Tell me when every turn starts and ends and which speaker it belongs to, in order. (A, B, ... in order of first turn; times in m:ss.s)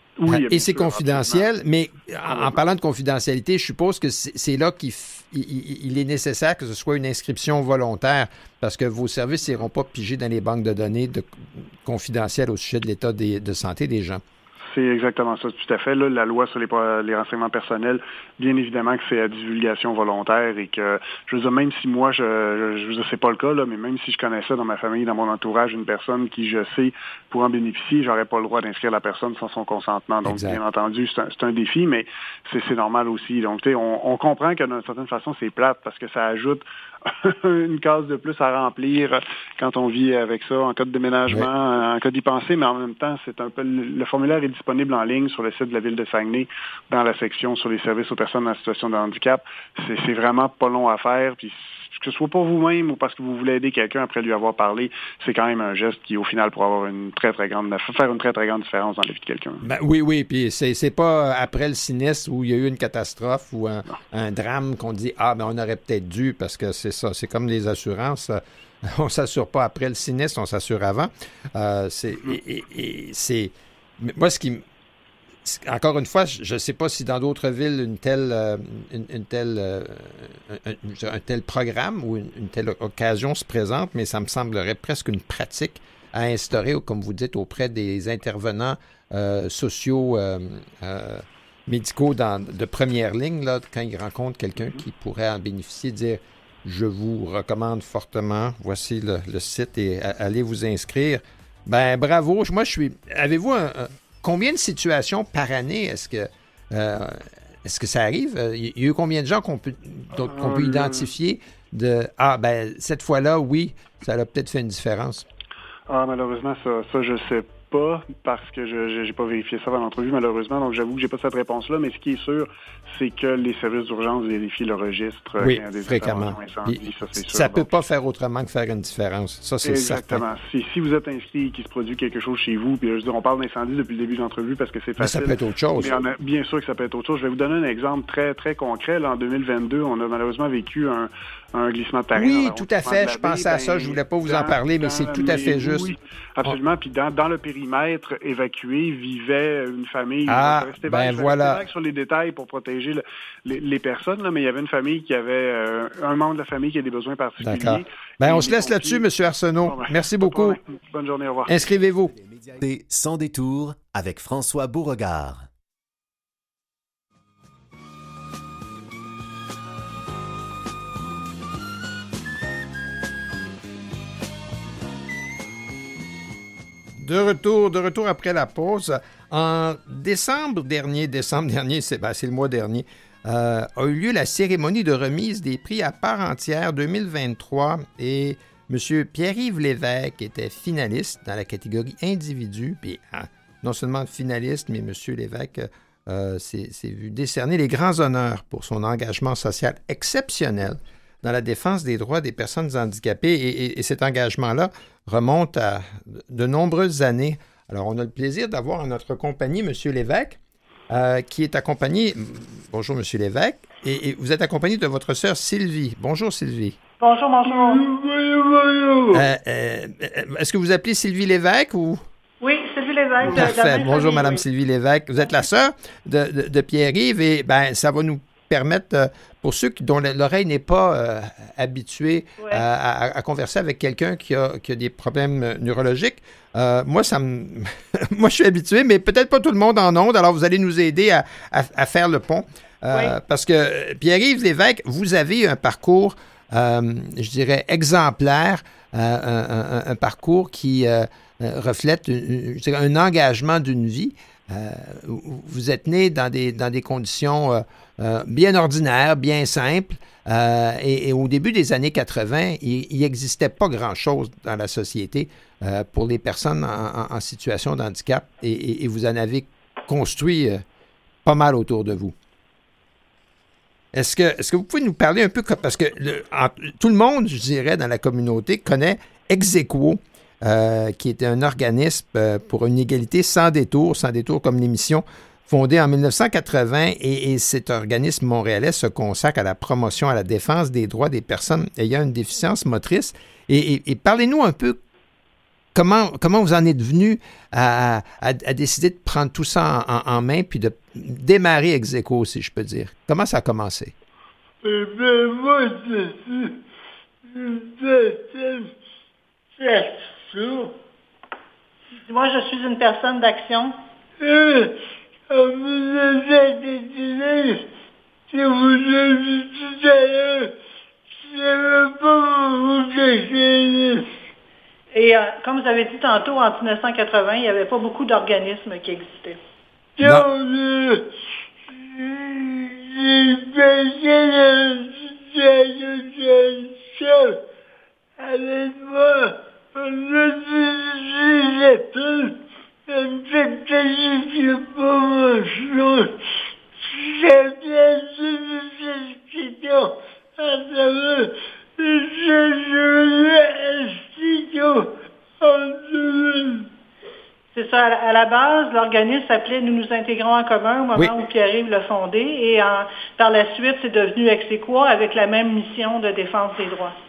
0:00.2-0:01.4 A
0:00.3-0:14.2 B
0:02.3-0:02.5 A
0:14.7-0:59.6 A
0:30.2-0:30.6 B
0:59.6-1:14.6 B
1:15.4-1:55.3 B
1:50.2-1:51.1 A
1:55.9-2:07.7 A
2:05.4-2:10.2 B
2:09.6-2:39.0 A
2:15.0-2:16.0 B
2:22.1-2:26.6 B
2:30.3-2:31.6 B
2:37.4-2:40.6 B
2:39.6-2:41.6 A
2:41.5-2:42.1 B
2:42.0-2:45.5 C
2:57.0-3:30.4 B
3:30.9-3:36.8 B
3:37.0-3:37.8 D
3:37.4-3:39.2 E
3:39.1-3:42.0 B
3:42.4-3:44.4 D
3:43.2-4:30.6 B
4:31.2-4:32.1 B
4:33.9-4:54.8 B
4:55.7-5:03.9 B
5:04.6-5:06.6 E
5:07.3-5:08.7 E
5:09.6-5:10.7 E
5:12.1-5:13.7 D
5:14.2-5:14.8 E
5:15.3-5:17.6 E
5:18.3-5:20.5 E
5:21.2-5:24.0 E
5:24.9-5:29.4 D
5:30.0-5:31.1 E
5:30.0-5:30.3 B
5:31.8-5:37.4 E
5:38.2-5:46.1 E
5:46.8-5:56.7 E
5:57.5-6:06.9 D